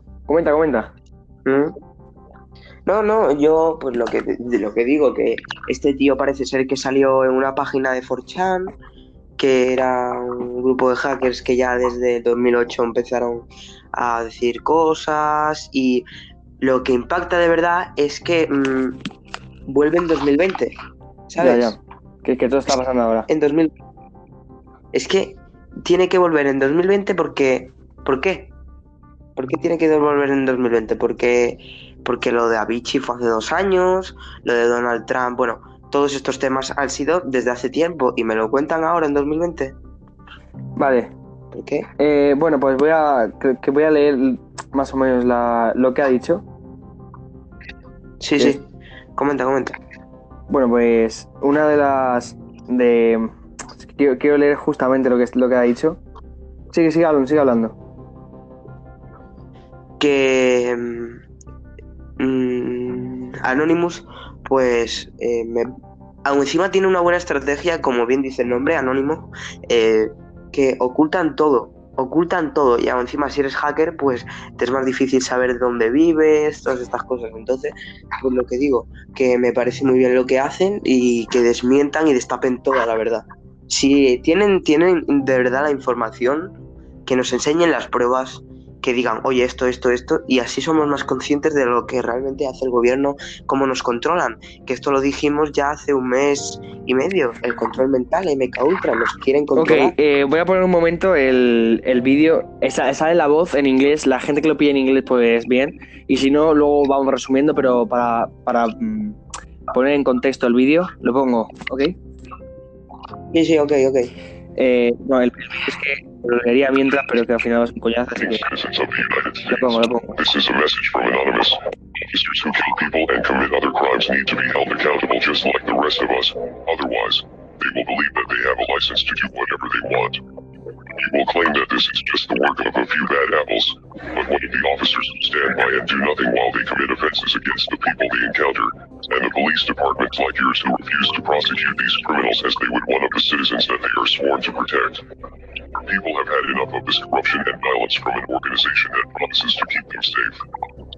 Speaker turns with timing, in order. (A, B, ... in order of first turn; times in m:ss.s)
0:00.3-0:00.9 A
0:01.4-0:01.8 B
0:02.9-0:08.8 B
0:09.4-0:16.1 B
0:16.6-0:19.0 B
0:19.7-0:20.7 B
0:21.3-0:21.8 B
0:21.4-0:23.3 A
0:23.3-0:23.7 B
0:24.9-0:28.5 B
0:29.4-0:39.8 B
0:40.8-0:41.1 A
0:41.5-0:41.9 B
0:42.0-0:46.4 A
0:48.2-0:49.8 B
0:50.5-0:56.0 A
0:56.7-0:57.8 A
1:00.0-1:01.2 B
1:02.2-1:05.7 B
1:06.2-1:26.6 B
1:27.1-1:40.0 B
1:39.6-1:49.2 A
1:49.7-1:52.0 A
1:53.3-1:54.1 B
1:54.6-1:58.5 A
1:58.3-2:10.2 C
1:59.5-2:00.2 A
2:11.0-2:25.0 C
2:25.8-2:30.4 C